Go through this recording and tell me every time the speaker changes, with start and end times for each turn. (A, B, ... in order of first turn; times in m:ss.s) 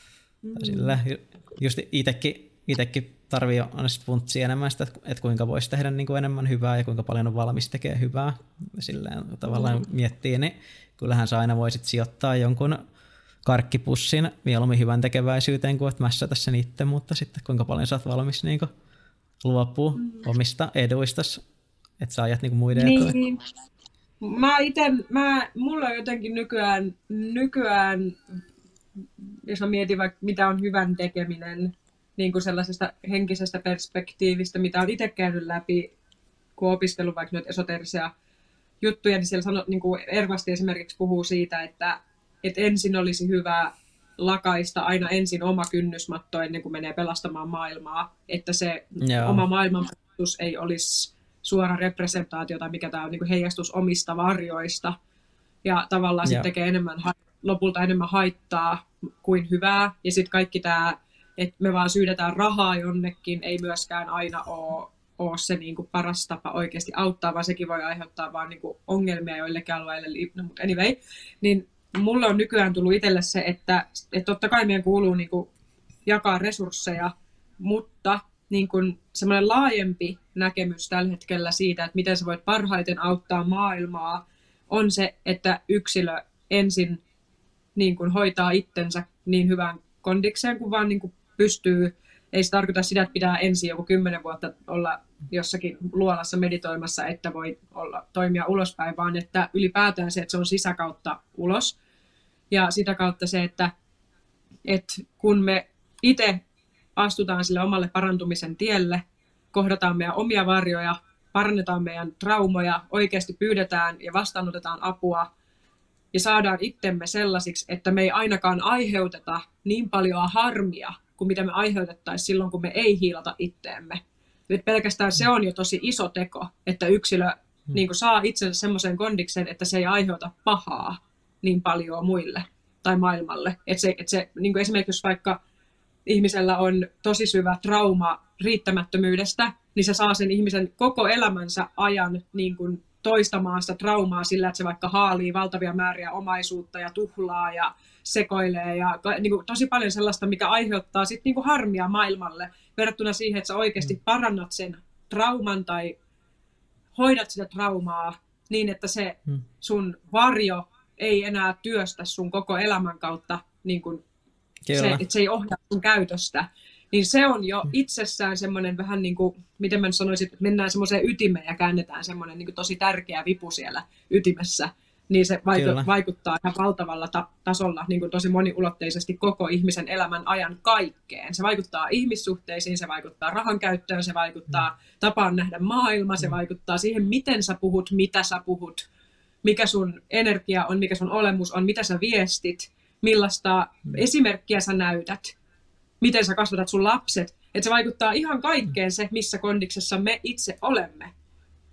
0:00.4-0:01.0 A
0:00.6-0:12.8 B
0:09.5-0:09.8 A
0:13.4-0:18.7 B
0:19.4-0:21.4 B
0:20.0-0:20.3 A
0:22.0-0:23.2 B
0:22.8-0:23.4 A
0:24.2-0:28.2 A
0:29.2-0:35.9 A
0:36.6-0:38.1 A
0:38.8-0:55.0 A
0:49.0-0:49.4 B
0:55.6-1:15.5 A
1:16.1-1:27.0 A
1:27.8-1:41.8 A
1:42.5-1:43.7 A
1:44.7-1:46.4 A
1:47.0-1:49.0 A
1:49.5-1:55.3 A
1:56.1-2:15.4 A
2:16.1-2:35.9 A
2:37.0-2:44.0 A
2:44.7-2:45.0 B
2:44.7-3:08.9 A
2:55.6-2:55.9 B
3:09.4-3:15.3 A
3:16.0-3:21.1 A